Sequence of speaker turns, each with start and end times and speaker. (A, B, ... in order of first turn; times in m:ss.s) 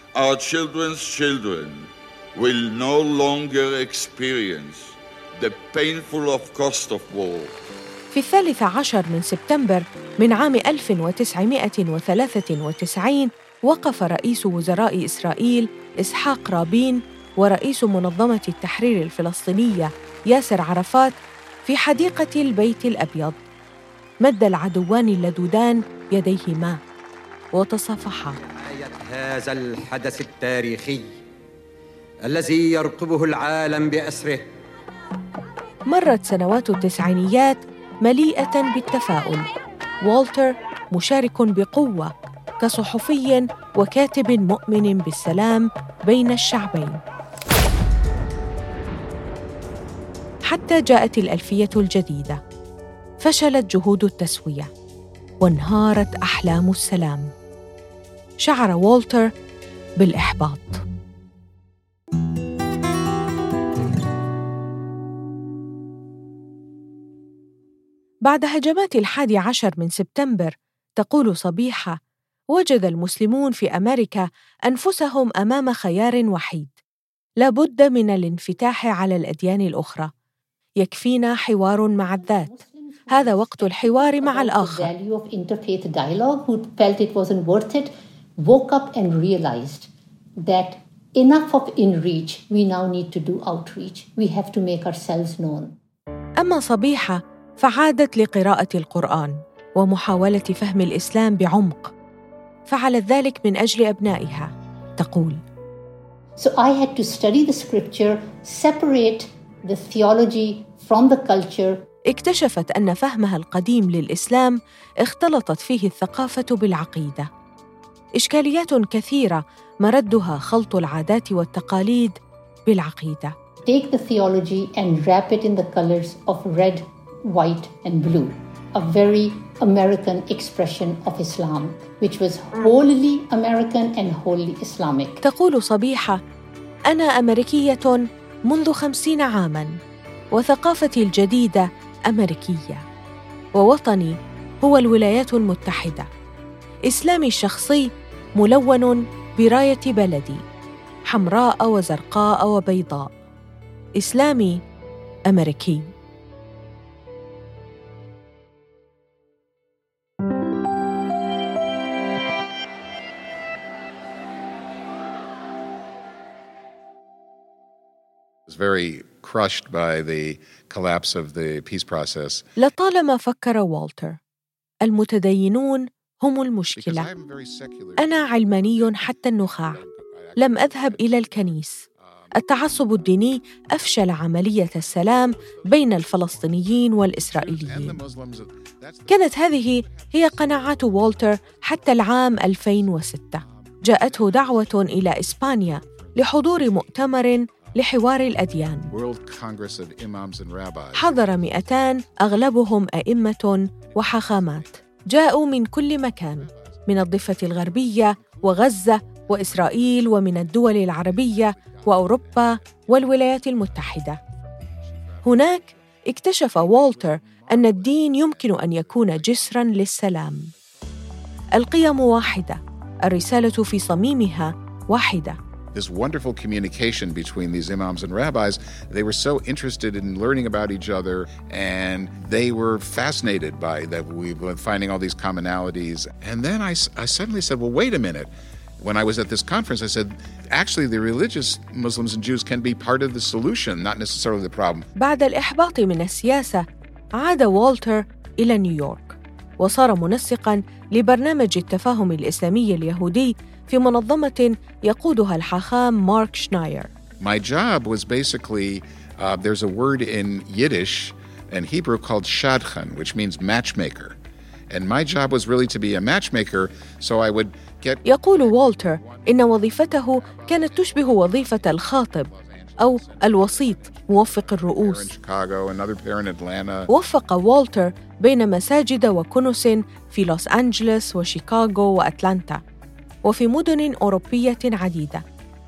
0:00.1-0:07.5 A
0:08.1-0:21.1 B
0:21.6-0:23.4 B
0:24.2-0:26.8 B
0:27.5-0:28.4 B
0:28.4-0:31.1 C
0:32.2-0:34.5 C
0:35.9-0:39.5 B
0:40.0-0:47.0 B
0:50.5-0:52.4 B
0:53.2-0:54.7 B
0:55.4-0:57.3 B
0:58.4-0:59.3 B
1:00.0-1:00.8 B
1:08.3-1:12.0 B
1:12.5-1:16.7 B
1:17.4-1:20.1 B
1:20.8-1:22.5 B
1:22.0-1:35.8 D
1:23.1-1:24.9 B
1:36.4-1:41.9 B
1:42.7-1:45.4 B
1:46.4-1:51.9 D
1:52.1-1:57.3 B
1:58.2-2:03.3 B
2:03.6-2:15.2 D
2:15.2-2:16.2 B
2:16.9-2:19.8 B
2:20.3-2:22.8 B
2:23.6-2:26.1 B
2:26.9-2:27.9 B
2:28.4-2:30.4 B
2:31.1-2:33.1 B
2:34.0-2:34.6 B
2:35.3-2:35.9 B
2:48.5-2:52.5 E
2:52.6-2:54.2 B
2:54.8-2:57.1 B
2:56.7-3:04.0 E
2:58.0-2:59.8 B
3:00.4-3:01.8 B
3:02.3-3:08.0 B
3:04.5-3:17.9 E
3:09.1-3:18.9 B
3:18.9-3:22.7 E
3:20.9-3:34.2 B
3:23.7-3:40.7 E
3:35.2-3:40.5 B
3:41.5-3:45.4 B
3:45.7-4:04.9 E
4:05.0-4:06.6 B
4:07.2-4:16.9 B
4:17.2-4:24.2 E
4:24.7-4:36.9 E
4:28.0-4:35.1 B
4:36.9-4:42.6 B
4:43.2-4:45.2 B